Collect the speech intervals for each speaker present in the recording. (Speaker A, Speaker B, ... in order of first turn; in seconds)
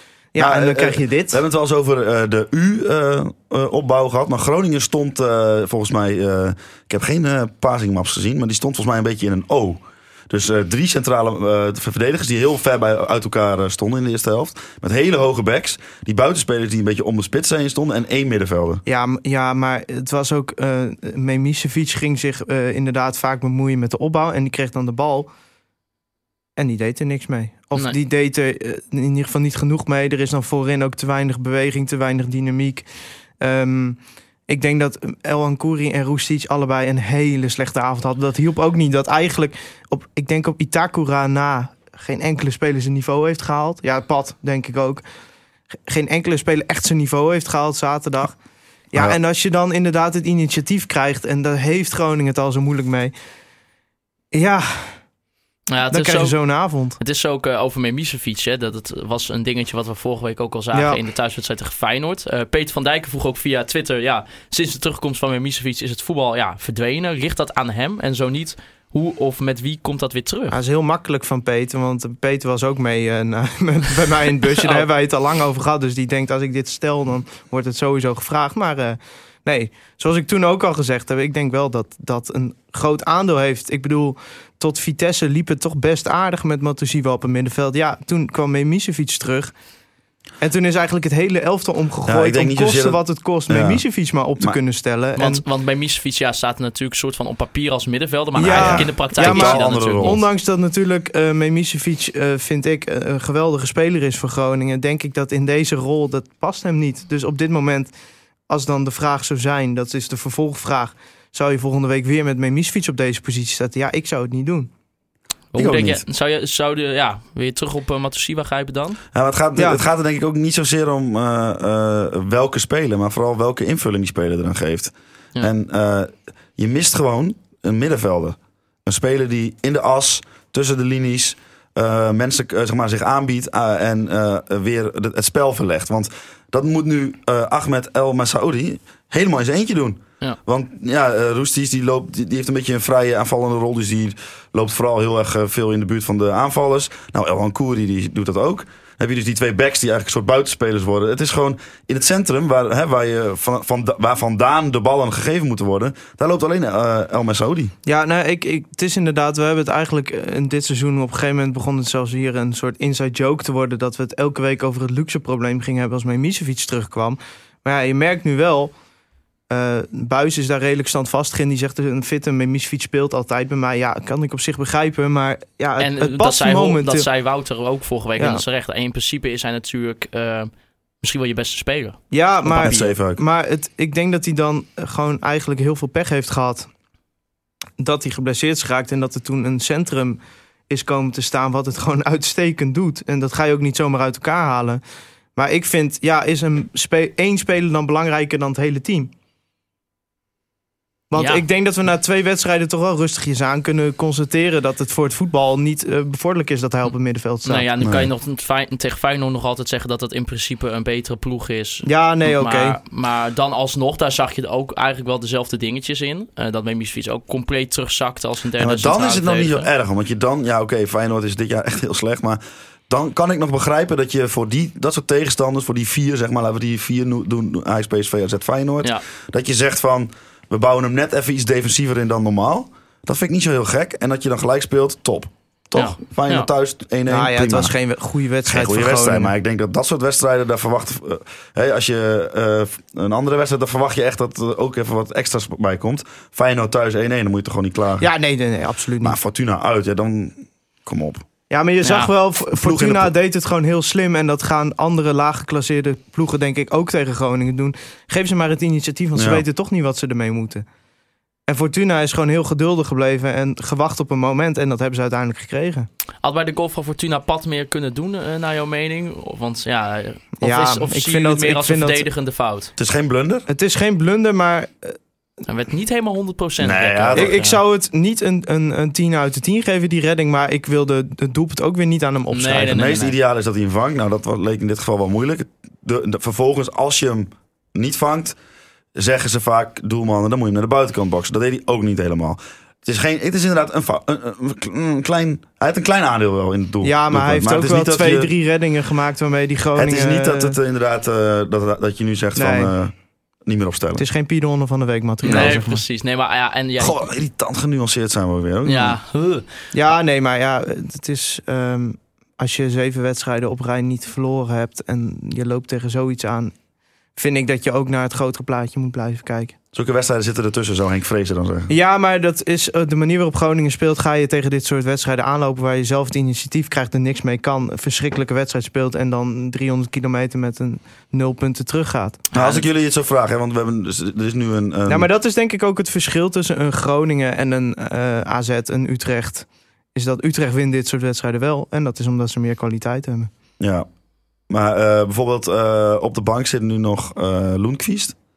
Speaker A: 0.3-1.4, 18.9-25.3, 26.6-32.9, 33.4-45.0, 45.9-48.4, 48.9-53.1, 54.3-55.0, 55.9-57.0, 60.7-61.0, 70.5-89.5, 90.4-95.4, 98.3-107.9, 108.5-114.7, 119.6-119.8, 157.8-168.7, 169.5-177.1, 178.2-178.4, 182.1-186.7, 187.8-194.8, 195.3-199.1, 201.1-207.7, 211.8-212.8, 237.1-239.3, 248.0-249.2, 251.5-260.6, 261.5-265.9, 270.4-272.1, 273.5-275.0, 277.1-283.0, 296.8-300.6, 302.4-302.7, 304.0-305.8, 309.7-316.5, 317.1-319.5, 321.7-332.2, 334.9-343.3
Speaker B: 0.4-18.8, 92.1-93.8, 98.4-100.2, 115.5-116.0, 119.1-157.7, 182.4-183.2, 207.8-208.1, 218.6-237.7, 238.5-248.1, 249.0-251.2, 252.6-253.1, 259.1-259.4, 272.8-273.4, 276.6-277.3, 282.6-288.4, 288.9-298.3, 299.8-302.9, 303.4-304.0, 305.2-305.5, 306.8-309.0, 319.7-321.7, 332.3-335.1, 343.6-343.9, 344.5-348.1
Speaker C: 55.7-56.4, 57.0-70.5, 74.6-74.9, 95.2-100.2, 115.5-119.0, 175.8-180.5, 181.0-182.0, 182.6-182.9, 201.2-201.4, 207.4-219.7, 235.7-236.5, 251.8-252.1, 266.2-272.7, 275.5-277.6, 282.3-283.1, 305.2-307.0, 308.6-309.4, 332.3-332.6